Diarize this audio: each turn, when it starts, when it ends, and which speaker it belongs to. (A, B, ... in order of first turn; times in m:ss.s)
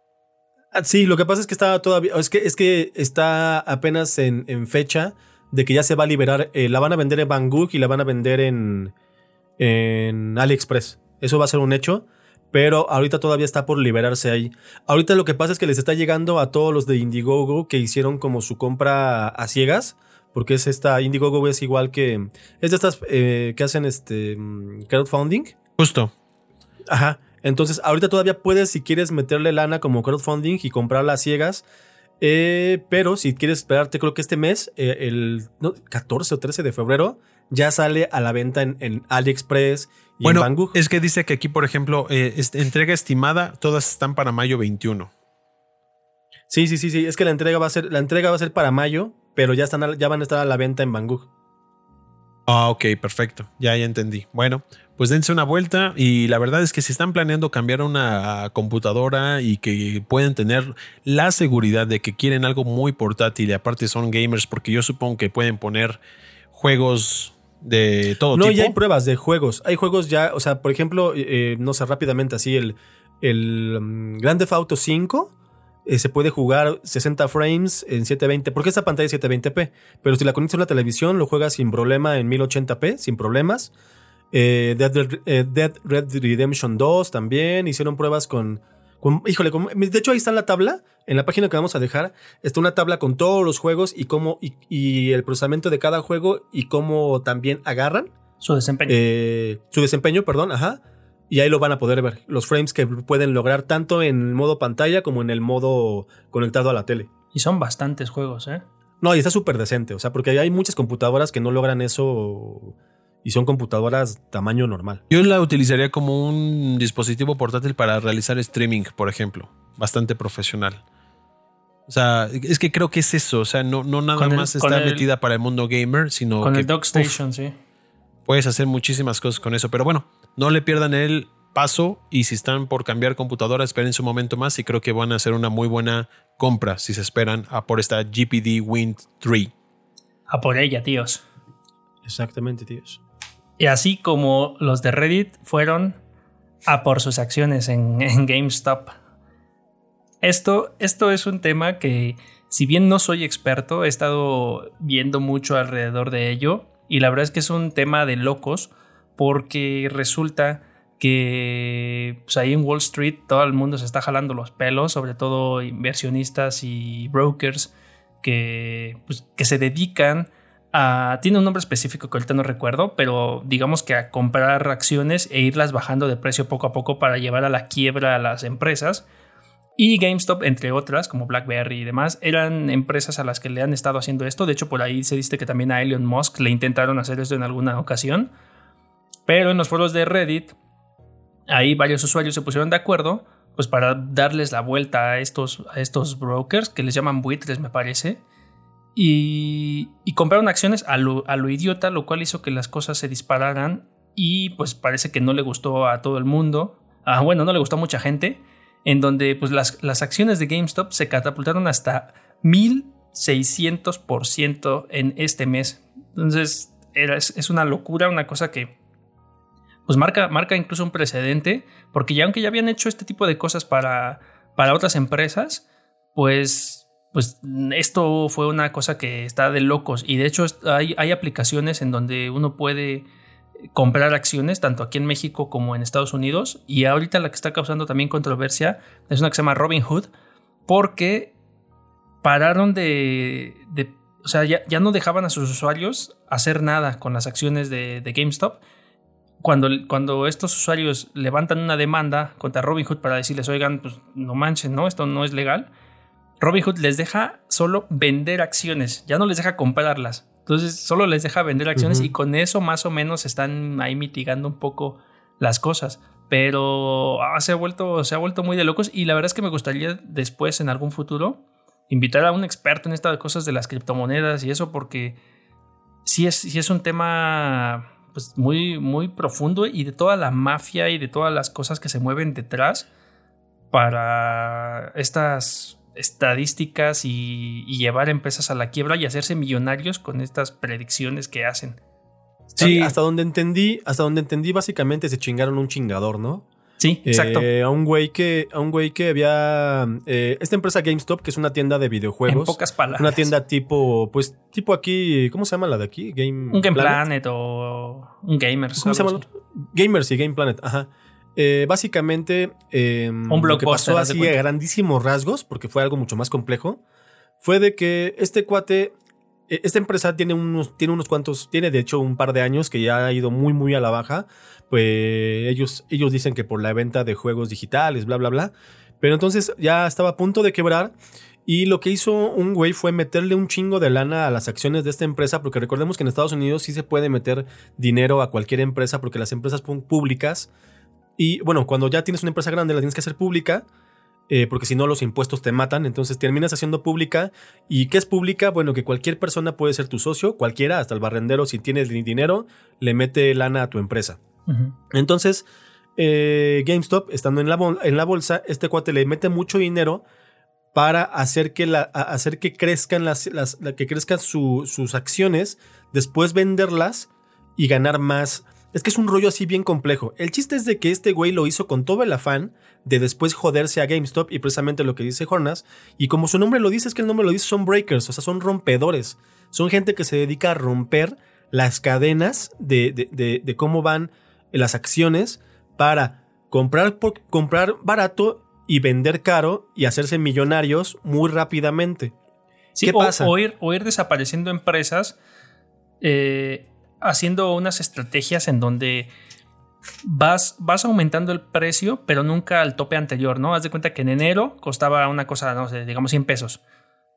0:00.7-0:08.9 A
0:09.6-0:25.6 A
0:25.8-0:26.1 B
0:26.9-0:31.6 A
0:32.2-0:40.8 A
0:40.2-0:45.1 B
0:46.5-0:51.3 A
0:52.5-1:06.0 B
1:06.5-1:08.8 B
1:08.3-1:15.3 A
1:15.8-1:23.7 A
1:24.3-1:38.1 A
1:38.4-1:39.0 C
1:38.9-1:47.1 A
1:47.3-1:48.6 C
1:49.0-1:55.0 A
1:55.1-2:00.8 B
2:01.9-2:07.1 B
2:04.2-2:05.0 C
2:06.4-2:07.5 C
2:08.2-2:19.5 B
2:20.3-2:21.2 C
2:22.0-2:23.0 A
2:23.6-2:26.0 C
2:26.7-2:29.0 C
2:30.2-2:59.0 C
2:59.8-3:08.3 C
3:09.3-3:10.5 C
3:11.5-3:18.2 C
3:18.9-3:38.7 C
3:39.9-3:45.6 C
3:46.1-3:53.1 C
3:53.7-4:00.1 C
4:00.7-4:01.3 C
4:02.2-4:08.6 C
4:09.4-4:15.7 C
4:16.4-4:35.2 C
4:21.8-4:22.1 A
4:36.0-4:42.8 C
4:43.7-4:51.8 C
4:52.6-4:56.4 A
4:52.6-4:52.9 B
4:56.8-4:57.5 C
4:57.0-5:07.0 A
5:02.3-5:03.2 C
5:06.5-5:09.2 C
5:08.8-5:16.8 A
5:13.3-5:14.3 C
5:17.4-5:18.9 A
5:19.5-5:30.9 A
5:31.4-5:40.5 A
5:41.2-5:43.6 A
5:44.3-5:54.2 A
5:54.5-5:54.7 C
5:54.9-5:55.4 A
5:56.0-6:00.0 A
6:00.7-6:32.1 A
6:32.8-6:35.2 C
6:32.8-6:33.3 A
6:36.0-6:39.1 C
6:40.0-6:46.6 C